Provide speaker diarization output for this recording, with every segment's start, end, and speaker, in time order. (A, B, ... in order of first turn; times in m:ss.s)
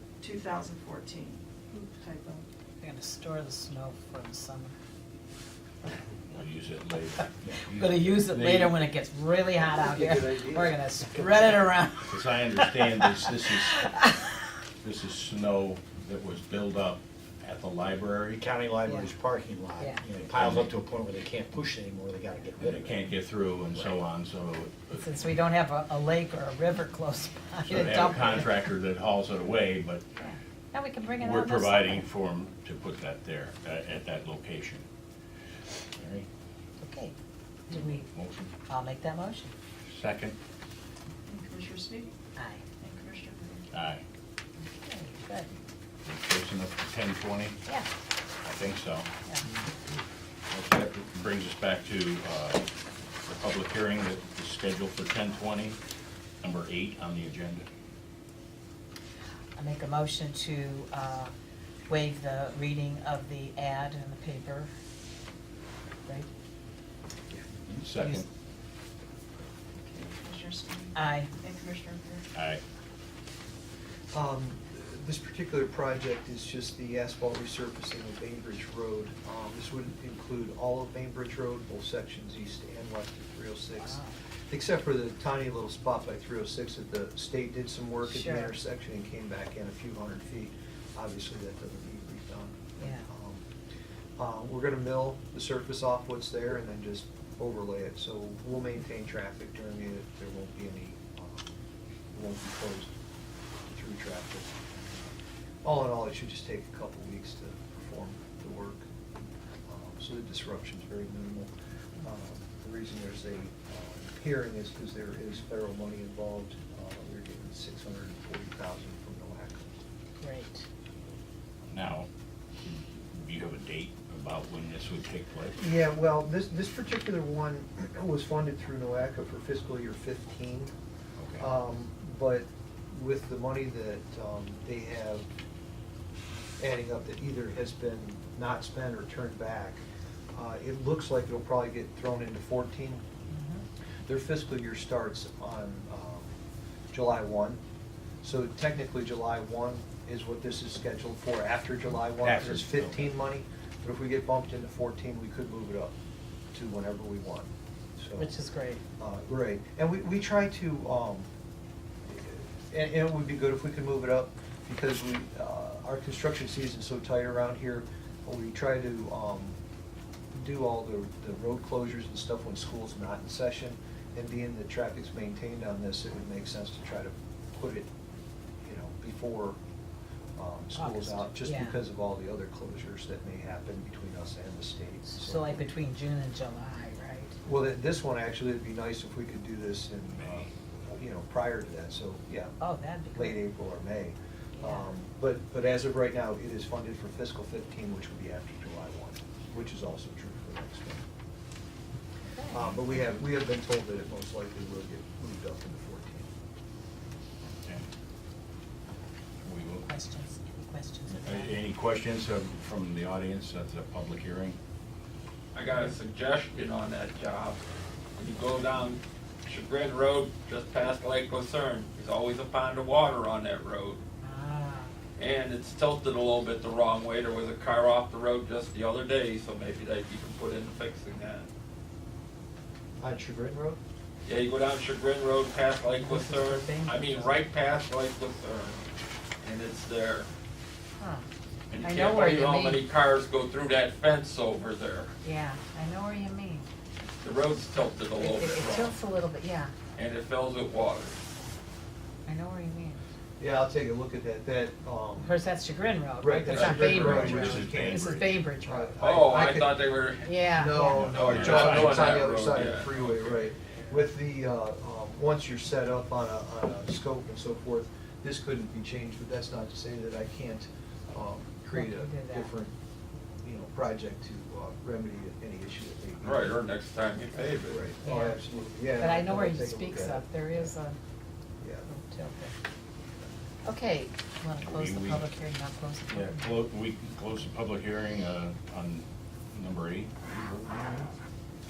0:00.2-0:02.4 A
0:02.8-0:04.7 B
0:06.3-0:08.8 C
0:07.4-0:07.8 D
0:07.7-0:14.4 B
0:09.6-0:10.8 E
0:12.1-0:13.9 C
0:14.8-0:18.4 C
0:18.4-0:24.1 D
0:20.3-0:20.7 C
0:22.6-0:25.1 C
0:25.0-0:28.5 B
0:27.6-0:30.0 C
0:30.2-0:32.0 B
0:31.2-0:34.8 C
0:36.0-0:36.3 C
0:36.8-0:37.1 B
0:37.7-0:38.0 B
0:37.8-0:38.5 C
0:38.7-0:39.5 B
0:39.9-0:40.4 C
0:41.2-0:42.2 A
0:42.4-0:42.6 B
0:42.8-0:43.7 A
0:43.7-0:44.0 C
0:44.6-0:45.5 B
0:46.0-0:47.6 C
0:48.4-0:49.1 C
0:50.5-0:52.7 C
0:53.2-0:55.8 C
0:56.4-0:57.6 C
0:59.6-1:01.3 B
1:01.9-1:04.7 B
1:07.8-1:08.2 C
1:09.8-1:12.2 A
1:10.9-1:11.3 B
1:12.3-1:12.6 C
1:14.1-1:33.4 E
1:23.8-1:24.1 B
1:28.0-1:28.5 B
1:32.8-1:33.1 B
1:34.2-1:41.6 E
1:42.1-1:42.9 E
1:43.7-1:45.0 E
1:45.6-1:48.8 E
1:49.7-1:59.7 E
2:00.2-2:00.6 B
2:01.7-2:02.1 C
2:02.6-2:05.6 C
2:05.6-2:10.7 E
2:11.2-2:11.5 C
2:11.4-2:15.3 E
2:16.6-2:19.8 E
2:20.3-2:23.0 E
2:23.3-2:23.6 B
2:24.0-2:26.3 E
2:26.9-2:27.6 E
2:28.2-2:35.9 E
2:32.2-2:33.1 D
2:36.5-2:38.3 E
2:38.2-2:38.8 B
2:39.0-2:41.3 E
2:42.1-2:49.6 E
2:50.3-2:57.9 E
2:58.6-2:59.6 E
3:00.4-3:05.7 E
3:00.7-3:01.8 B
3:05.1-3:07.4 B
3:07.4-3:12.5 E
3:10.1-3:10.5 C
3:12.6-3:13.4 B
3:13.1-3:21.0 E
3:14.6-3:14.9 B
3:22.2-3:22.8 B
3:22.5-3:26.3 E
3:29.4-3:29.9 C
3:29.8-3:31.5 B
3:31.1-3:34.6 C
3:35.5-3:37.6 F
3:38.2-3:44.0 F
3:44.2-3:44.9 B
3:45.2-3:51.5 F
3:53.0-3:53.8 E
3:54.2-3:58.8 F
3:55.9-3:57.4 B
3:59.4-4:00.3 F
4:01.0-4:01.2 B
4:01.7-4:05.1 F
4:01.8-4:02.8 B
4:05.2-4:06.7 B
4:07.2-4:08.9 F
4:08.2-4:09.7 B
4:10.0-4:11.2 F
4:12.2-4:13.0 B
4:13.4-4:15.4 E
4:15.2-4:19.0 B
4:16.2-4:18.0 E
4:16.5-4:18.4 C
4:18.6-4:19.8 E
4:19.0-4:20.3 F
4:20.2-4:21.4 B
4:20.5-4:32.7 E
4:20.9-4:24.0 F
4:21.0-4:22.2 C
4:31.7-4:32.5 B
4:33.4-4:36.6 E
4:36.2-4:37.9 F
4:37.5-4:40.8 E
4:38.0-4:38.4 B
4:39.0-4:41.0 B
4:41.6-4:41.9 E
4:41.8-4:42.5 B
4:43.6-4:46.5 B
4:44.6-4:45.2 C
4:46.1-4:51.1 C